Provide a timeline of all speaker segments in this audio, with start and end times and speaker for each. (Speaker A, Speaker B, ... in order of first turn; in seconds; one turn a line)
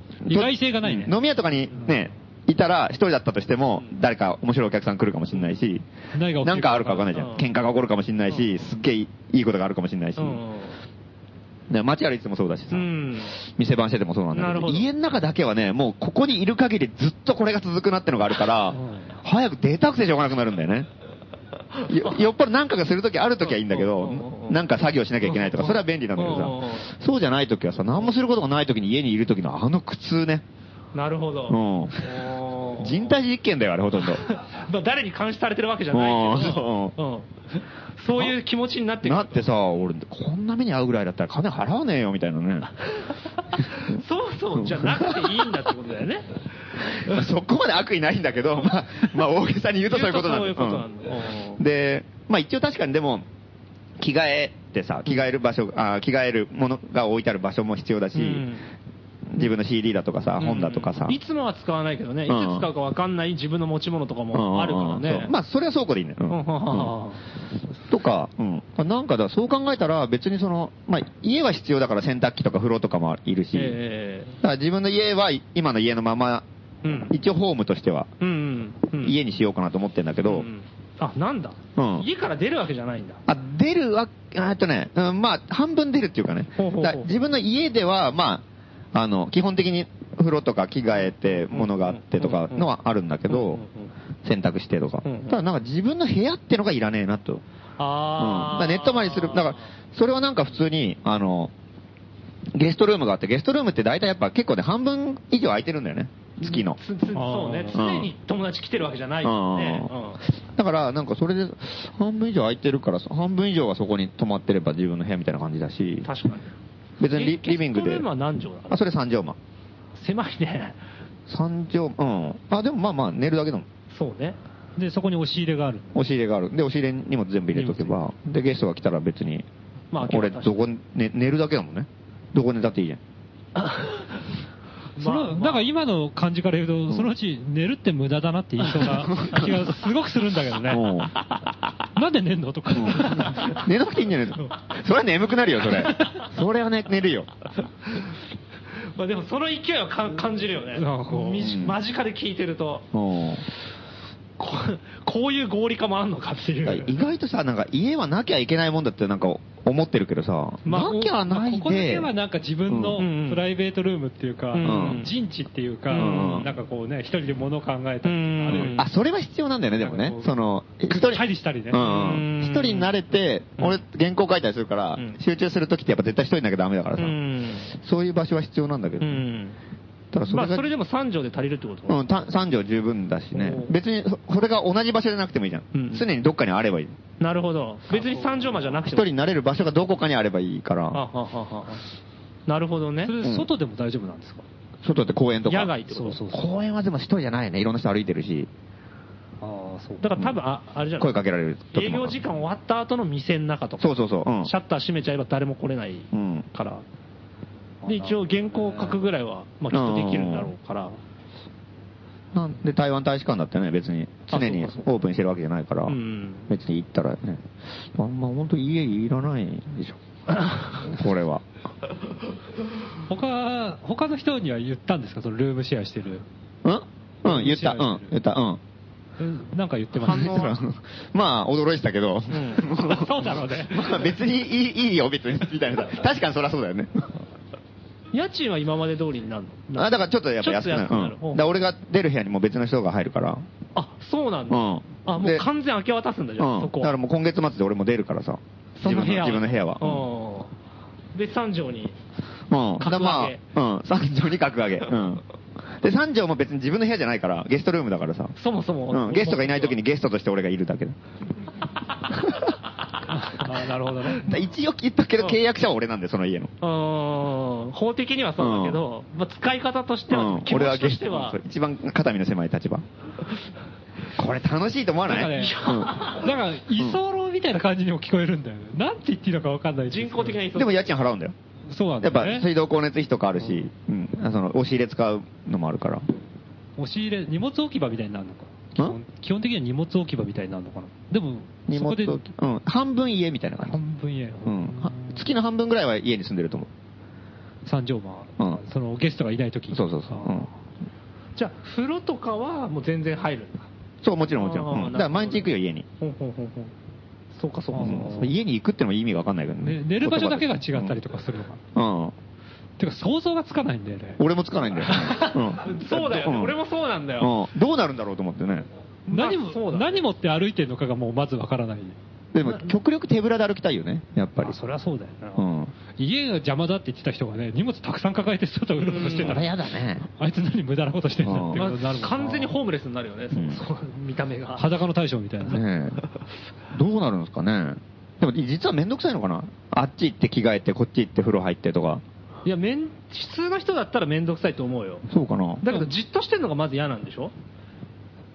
Speaker A: 0.3-1.2
Speaker B: 0.3-5.9
Speaker A: 6.1-7.2
Speaker B: 6.4-10.4
Speaker C: 7.1-7.5
Speaker C: 10.2-10.8
Speaker B: 11.7-20.9
Speaker C: 12.7-13.4
Speaker C: 14.3-14.9
Speaker C: 21.8-22.3
Speaker B: 21.9-30.4
Speaker C: 23.4-24.6
Speaker C: 25.2-26.9
Speaker C: 30.9-33.1
Speaker B: 31.5-32.1
Speaker B: 32.8-34.2
Speaker C: 34.0-39.4
Speaker B: 35.9-37.0
Speaker B: 39.0-42.7
Speaker C: 42.9-46.3
Speaker B: 44.6-45.5
Speaker C: 46.9-47.1
Speaker B: 47.0-50.9
Speaker C: 49.9-51.6
Speaker B: 51.6-53.3
Speaker B: 54.0-58.5
Speaker C: 58.1-58.6
Speaker B: 59.3-61.2
Speaker C: 60.4-65.3
Speaker B: 62.3-62.7
Speaker B: 64.3-66.9
Speaker C: 66.3-67.2
Speaker B: 67.9-73.8
Speaker C: 73.5-74.4
Speaker B: 74.4-78.1
Speaker C: 76.8-77.2
Speaker C: 78.2-79.2
Speaker B: 79.0-80.5
Speaker C: 80.2-83.2
Speaker B: 81.8-82.1
Speaker B: 83.3-93.6
Speaker C: 86.6-87.1
Speaker C: 91.3-92.7
Speaker C: 93.3-93.9
Speaker B: 94.2-97.4
Speaker C: 95.0-95.4
Speaker C: 97.8-99.6
Speaker B: 98.2-101.5
Speaker B: 102.5-106.8
Speaker C: 106.4-110.2
Speaker A: 107.1-107.8
Speaker B: 107.7-108.1
Speaker B: 109.2-116.1
Speaker C: 116.0-116.5
Speaker B: 117.0-118.1
Speaker C: 117.1-118.8
Speaker B: 118.7-119.4
Speaker C: 120.0-120.8
Speaker B: 121.3-123.7
Speaker C: 123.9-124.4
Speaker A: 124.8-126.1
Speaker B: 125.9-129.5
Speaker A: 127.5-128.1
Speaker C: 129.9-130.7
Speaker B: 130.0-133.0
Speaker C: 133.6-134.2
Speaker C: 135.0-135.7
Speaker A: 135.0-141.0
Speaker B: 138.8-139.7
Speaker B: 140.7-141.1
Speaker A: 142.0-143.6
Speaker B: 142.8-147.3
Speaker C: 148.9-152.9
Speaker A: 150.8-151.5
Speaker B: 151.4-151.8
Speaker B: 152.9-153.4
Speaker C: 154.4-156.9
Speaker B: 156.6-162.1
Speaker C: 160.7-161.0
Speaker A: 160.7-168.8
Speaker B: 162.7-163.0
Speaker C: 163.0-163.4
Speaker C: 164.5-165.1
Speaker B: 164.6-165.1
Speaker C: 165.9-166.4
Speaker B: 165.9-166.5
Speaker C: 168.0-168.9
Speaker B: 168.5-177.2
Speaker A: 169.8-171.8
Speaker C: 171.8-172.9
Speaker C: 177.0-177.7
Speaker B: 177.7-179.2
Speaker C: 179.0-179.6
Speaker B: 180.1-180.7
Speaker C: 180.3-182.1
Speaker B: 181.9-187.0
Speaker C: 183.3-183.7
Speaker C: 185.7-186.1
Speaker C: 187.2-189.1
Speaker B: 188.8-191.0
Speaker C: 190.9-191.8
Speaker C: 192.5-193.1
Speaker A: 193.0-194.4
Speaker B: 193.2-193.5
Speaker B: 194.8-198.5
Speaker C: 195.5-196.2
Speaker A: 195.9-196.4
Speaker A: 199.4-200.1
Speaker C: 200.0-201.2
Speaker B: 201.0-202.2
Speaker C: 201.7-203.9
Speaker B: 203.8-204.5
Speaker C: 204.4-206.8
Speaker B: 206.1-206.5
Speaker A: 207.8-209.0
Speaker C: 207.9-211.0
Speaker B: 209.7-210.5
Speaker B: 212.3-216.0
Speaker C: 214.3-214.9
Speaker C: 215.9-216.5
Speaker B: 216.5-220.0
Speaker B: 220.7-221.4
Speaker A: 223.1-226.2
Speaker B: 226.6-228.6
Speaker A: 227.2-228.1
Speaker A: 229.2-230.6
Speaker B: 230.0-237.1
Speaker C: 230.1-230.5
Speaker C: 232.3-233.2
Speaker A: 232.8-233.9
Speaker C: 238.1-239.8
Speaker B: 239.8-243.4
Speaker C: 240.4-241.5
Speaker C: 243.8-246.9
Speaker B: 244.5-245.5
Speaker B: 246.4-250.1
Speaker C: 248.8-250.5
Speaker C: 251.1-252.0
Speaker B: 252.5-255.2
Speaker C: 252.8-253.4
Speaker B: 255.8-258.4
Speaker C: 258.4-259.8
Speaker B: 258.9-261.0
Speaker B: 262.1-262.5
Speaker A: 263.1-264.4
Speaker B: 264.2-266.5
Speaker C: 266.6-271.4
Speaker B: 268.4-268.8
Speaker B: 270.1-272.8
Speaker B: 274.2-276.1
Speaker A: 275.1-280.4
Speaker C: 275.2-276.3
Speaker C: 279.9-280.8
Speaker B: 280.5-281.4
Speaker A: 281.7-282.5
Speaker B: 282.0-286.1
Speaker A: 286.8-292.2
Speaker B: 291.7-293.8
Speaker A: 293.6-295.2
Speaker B: 294.4-296.7
Speaker A: 297.6-300.5
Speaker B: 299.7-300.5
Speaker C: 301.4-303.7
Speaker B: 304.0-305.9
Speaker C: 304.4-305.5
Speaker C: 306.0-306.7
Speaker C: 307.3-308.3
Speaker A: 307.7-308.3
Speaker B: 307.8-311.0
Speaker A: 309.6-311.6
Speaker B: 311.8-312.1
Speaker A: 312.8-314.2
Speaker B: 314.2-316.6
Speaker C: 314.9-317.3
Speaker B: 317.2-318.7
Speaker C: 319.1-320.1
Speaker A: 319.1-321.9
Speaker B: 322.3-324.6
Speaker A: 324.4-329.6
Speaker B: 325.4-325.7
Speaker C: 328.8-329.4
Speaker B: 329.1-330.1
Speaker A: 330.2-332.6
Speaker B: 331.2-331.6
Speaker C: 331.5-334.7
Speaker B: 333.3-333.6
Speaker A: 334.6-335.6
Speaker B: 335.4-336.0
Speaker B: 336.7-342.0
Speaker C: 342.4-345.0
Speaker B: 345.1-345.7
Speaker C: 345.6-347.3